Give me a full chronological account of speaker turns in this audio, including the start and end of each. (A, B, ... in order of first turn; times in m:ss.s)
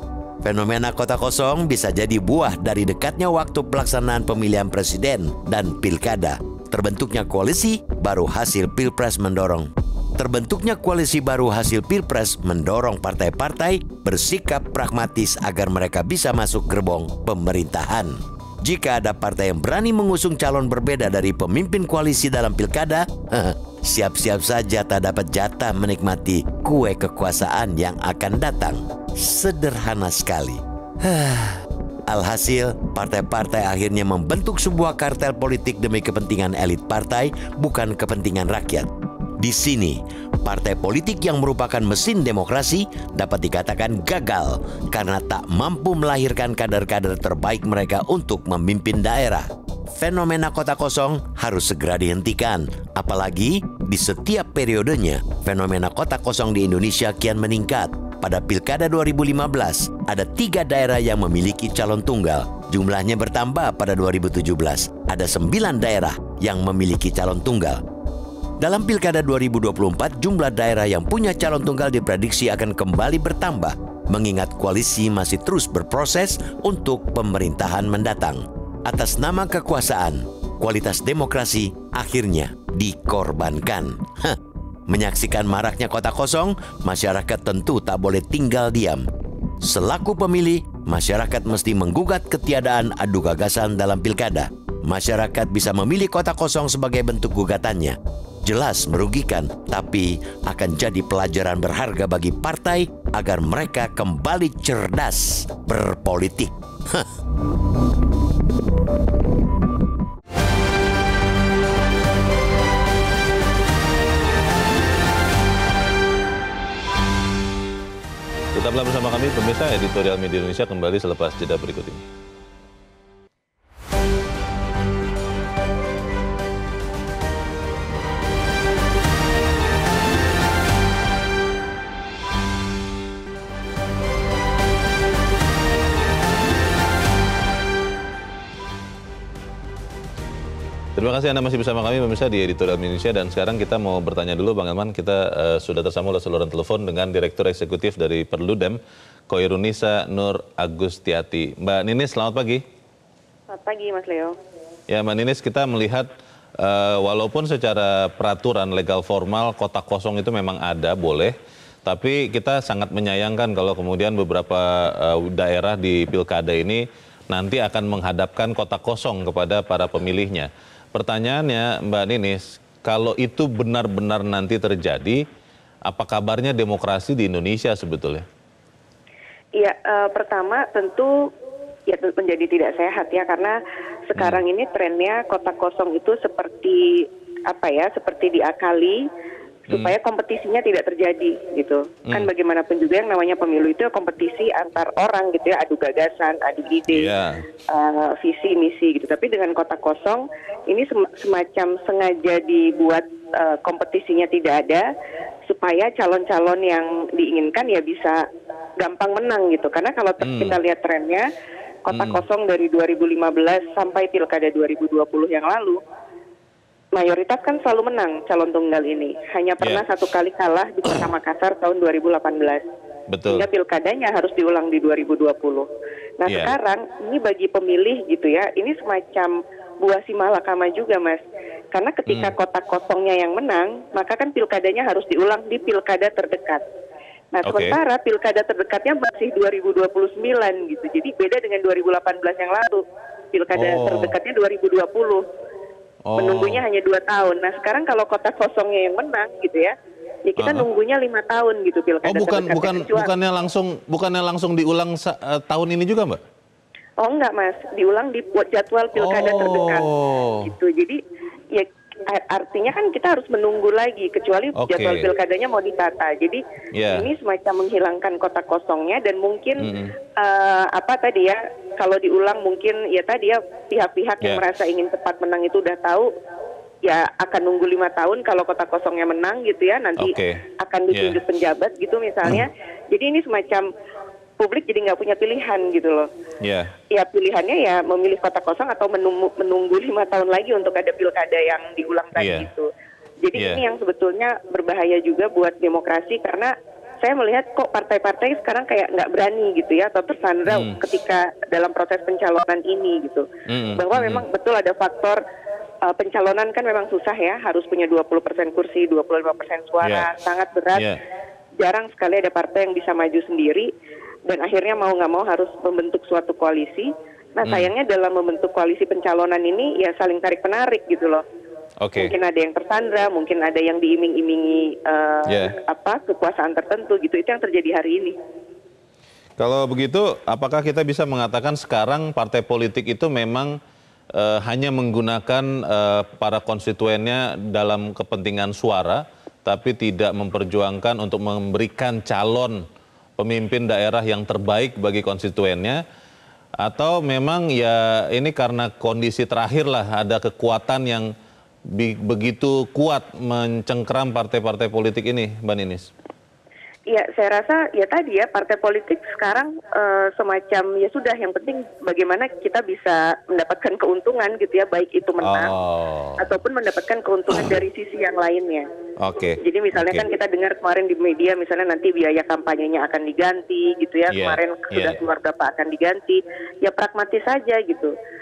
0:00.4-1:07.8 A
1:08.6-1:29.0 A
1:29.6-1:47.1 A
1:58.5-2:02.0 B
2:21.0-2:32.6 B
2:33.5-2:34.4 C
2:34.9-2:36.1 B
2:36.6-2:41.3 B
2:41.8-2:55.2 B
2:55.9-2:58.2 B
2:59.6-3:01.1 C
3:01.9-3:03.6 C
3:04.1-3:09.0 C
3:09.7-3:09.9 B
3:09.7-3:17.1 C
3:16.9-3:17.4 B
3:17.7-3:24.8 C
3:25.5-3:28.2 C
3:28.8-3:31.2 C
3:30.2-3:30.6 B
3:31.8-3:35.8 C
3:31.9-3:32.2 B
3:36.9-3:42.6 C
3:43.1-3:43.4 B
3:43.3-3:45.7 C
3:46.2-3:51.2 C
3:46.3-3:46.5 B
3:51.7-3:56.6 C
3:52.1-3:52.3 B
3:57.3-4:05.2 C
3:57.4-3:57.8 B
4:03.5-4:04.1 B
4:06.0-4:06.6 B
4:06.2-4:09.7 C
4:10.3-4:13.1 C
4:10.4-4:10.6 B
4:12.0-4:16.2 B
4:17.0-4:19.9 C
4:19.0-4:20.5 B
4:20.4-4:21.0 C
4:21.5-4:29.6 C
4:24.6-4:25.1 B
4:26.8-4:27.1 B
4:29.6-4:29.9 B
4:30.2-4:36.1 C
4:36.8-4:43.6 C
4:40.0-4:41.2 B
4:44.4-4:46.1 C
4:46.4-4:46.7 B
4:46.9-4:52.7 C
4:52.2-4:52.5 B
4:53.2-5:05.2 C
4:53.4-4:53.6 B
5:00.5-5:00.8 B
5:03.5-5:04.2 B
5:05.8-5:10.8 C
5:09.8-5:10.1 B
5:11.6-5:13.7 C
5:14.3-5:21.2 C
5:17.4-5:17.7 B
5:21.8-5:22.1 B
5:22.0-5:28.2 C
5:25.3-5:25.5 B
5:29.4-5:33.6 B
5:34.1-5:42.6 B
5:43.2-5:45.8 B
5:46.6-5:51.1 B
5:51.7-5:55.9 B
5:56.9-6:05.5 C
6:05.2-6:06.3 B
6:06.2-6:08.7 C
6:09.0-6:10.0 B
6:09.4-6:17.9 C
6:14.1-6:15.0 B